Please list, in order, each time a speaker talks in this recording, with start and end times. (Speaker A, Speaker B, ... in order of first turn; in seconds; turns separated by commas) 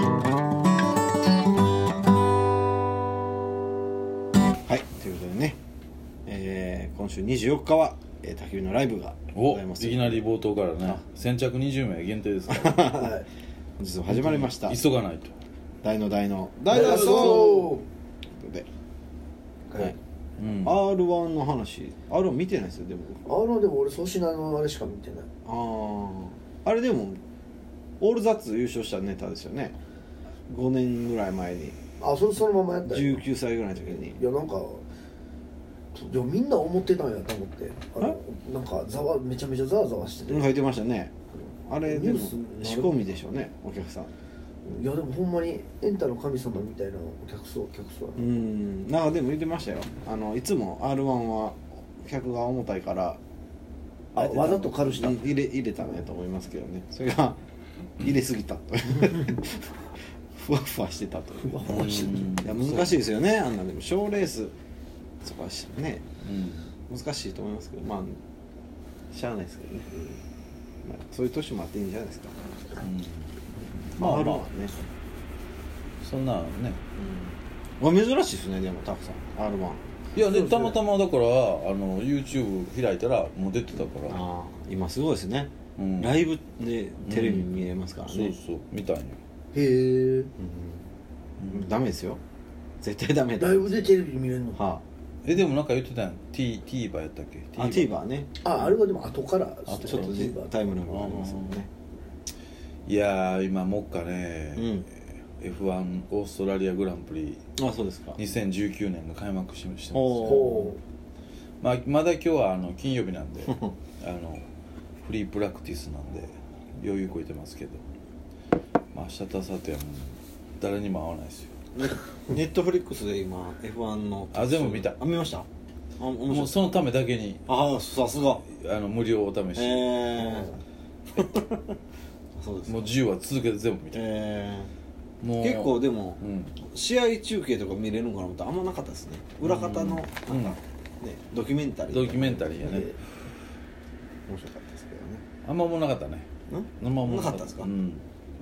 Speaker A: 4.7-5.6, Speaker A: 6.3-10.2, Speaker B: 9.3-13.1, Speaker A: 12.5-13.1, Speaker C: 12.9-13.3, Speaker A: 13.8-14.8, Speaker B: 14.1-15.3, Speaker A: 15.8-17.8, Speaker B: 16.7-17.7, Speaker C: 16.7-17.9, Speaker A: 18.4-18.7, Speaker C: 19.7-20.0, Speaker B: 20.4-20.8, Speaker A: 20.6-23.2, Speaker C: 23.3-25.3, Speaker A: 25.5-27.2, Speaker A: 28.0-29.8, Speaker A: 30.5-31.8, Speaker C: 32.0-33.2, Speaker A: 32.9-34.2, Speaker C: 33.8-34.8, Speaker C: 35.9-40.5, Speaker A: 40.3-44.1, Speaker C: 41.9-43.0, Speaker C: 44.6-48.2, Speaker A: 48.2-53.2, Speaker A: 54.1-57.4, Speaker C: 54.2-55.2, Speaker A: 58.0-59.7, Speaker A: 60.4-64.5, Speaker C: 61.4-62.5, Speaker B: 61.7-63.0, Speaker A: 65.2-66.0, Speaker B: 66.2-66.7, Speaker A: 66.9-68.2, Speaker A: 69.1-69.9, Speaker A: 70.8-72.4, Speaker B: 72.8-73.3, Speaker A: 74.0-74.7, Speaker B: 74.0-74.5, Speaker B: 76.0-76.8, Speaker A: 77.0-79.8, Speaker B: 80.2-84.2, Speaker C: 80.2-80.8, Speaker A: 84.0-88.3, Speaker B: 85.8-86.2, Speaker B: 87.0-89.2, Speaker C: 89.5-90.3, Speaker A: 90.4-90.9, Speaker B: 91.4-91.7, Speaker A: 91.4-92.2, Speaker A: 92.8-93.9, Speaker C: 93.4-94.6, Speaker A: 94.5-94.8, Speaker B: 95.2-97.9, Speaker A: 97.6-98.3, Speaker C: 98.4-100.5, Speaker B: 99.7-100.3, Speaker A: 99.8-101.7, Speaker B: 100.9-101.6, Speaker B: 102.9-104.8, Speaker A: 104.6-104.9, Speaker B: 105.4-107.4, Speaker A: 107.6-108.2, Speaker B: 108.2-110.7, Speaker A: 109.9-110.8, Speaker C: 110.2-110.8, Speaker B: 111.6-114.5, Speaker A: 113.5-113.7, Speaker B: 115.0-117.8, Speaker B: 118.9-121.5, Speaker A: 121.8-125.5, Speaker B: 124.3-125.0, Speaker A: 126.0-126.7, Speaker B: 126.3-127.4, Speaker A: 127.5-128.4, Speaker B: 128.4-130.2, Speaker A: 129.6-130.5, Speaker A: 131.1-131.8, Speaker A: 132.3-132.9, Speaker B: 132.7-134.1, Speaker A: 133.9-134.7, Speaker B: 135.2-136.6, Speaker A: 135.4-142.8, Speaker B: 139.4-140.6, Speaker B: 141.9-143.0, Speaker C: 142.6-142.9, Speaker A: 144.3-145.2, Speaker B: 145.4-146.3, Speaker A: 146.5-147.7, Speaker B: 146.8-148.0